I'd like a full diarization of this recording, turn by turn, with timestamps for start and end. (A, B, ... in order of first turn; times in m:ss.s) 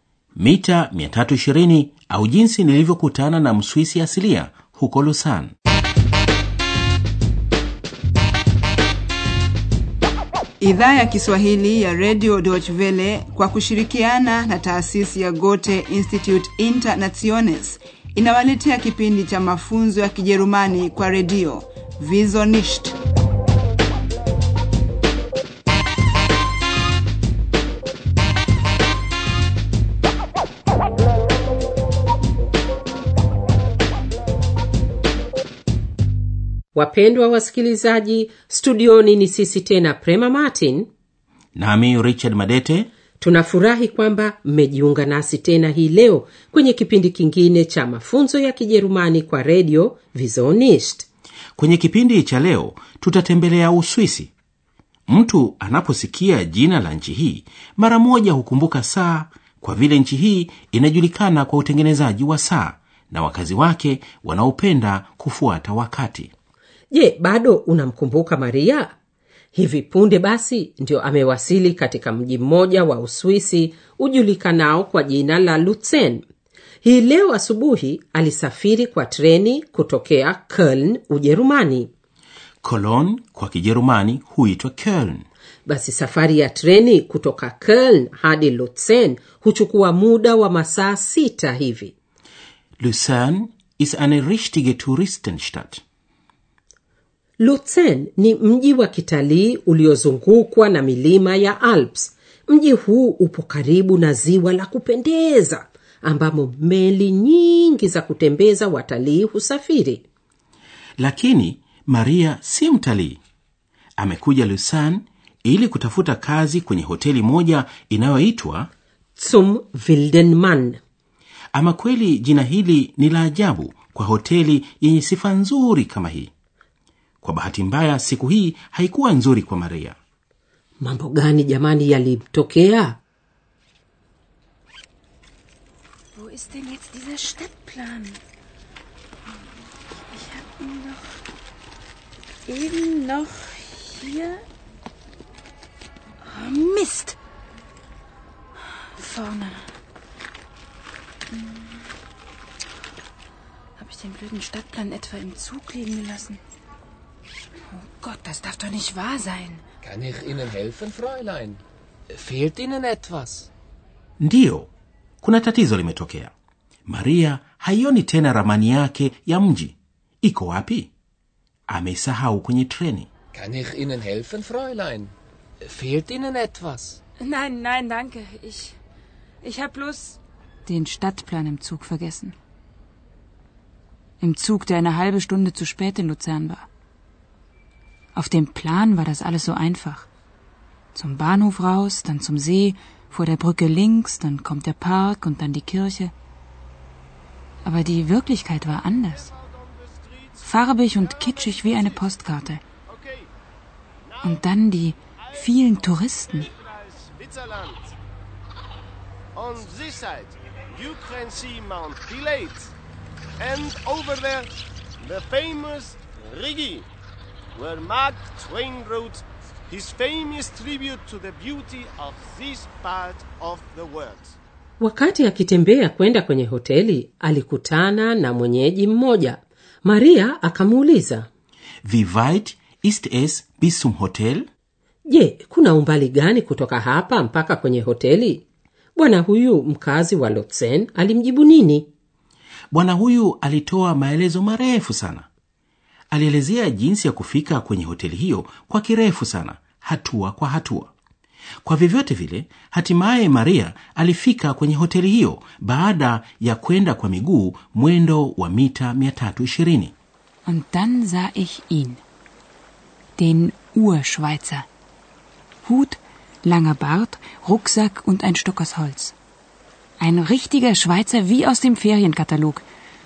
0:00.4-0:05.5 A
0:10.6-0:23.0 B
0:36.7-0:40.9 C
0:41.6-0:42.9 A
0:43.2-0:51.1 C
0:51.6-0:54.3 A
0:55.1-1:06.3 A
1:06.9-1:08.9 C
1:09.5-1:16.2 C
1:16.8-1:21.9 C
1:22.6-1:25.2 A
1:25.6-1:31.9 C
1:32.8-1:35.8 A
1:37.4-1:50.0 C
1:51.0-1:53.2 A
1:54.0-1:58.7 A
1:59.2-2:00.8 C
2:01.5-2:06.3 A
2:07.2-2:10.0 A
2:10.8-2:13.0 C
2:16.1-2:18.2 D
2:20.1-2:21.2 D
2:22.5-2:24.4 D
2:26.2-2:27.2 D
2:28.8-2:29.7 D
2:31.3-2:31.8 D
2:33.8-2:36.4 D
2:37.7-2:39.6 D
2:39.8-2:41.6 E
2:42.1-2:43.5 E
2:44.2-2:46.3 A
2:46.9-2:50.9 A
2:51.7-2:53.1 A
2:53.3-2:57.0 E
2:57.2-2:58.8 D
2:59.4-3:02.4 D
3:04.2-3:06.7 D
3:08.1-3:10.1 D
3:10.9-3:16.1 D
3:17.6-3:19.3 D
3:20.0-3:20.3 F
3:20.4-3:22.6 D
3:22.9-3:23.3 F
3:24.2-3:26.5 D
3:26.5-3:28.0 F
3:29.4-3:32.7 F
3:33.4-3:36.9 F
3:37.5-3:44.4 F
3:44.8-3:51.3 C
3:51.8-3:54.5 A
3:55.1-3:58.4 C
3:59.0-4:01.9 C
4:02.7-4:05.3 A
4:06.1-4:10.9 A
4:11.6-4:19.9 A
4:20.4-4:22.0 D
4:23.2-4:24.7 D
4:25.6-4:29.1 D
4:30.0-4:32.6 D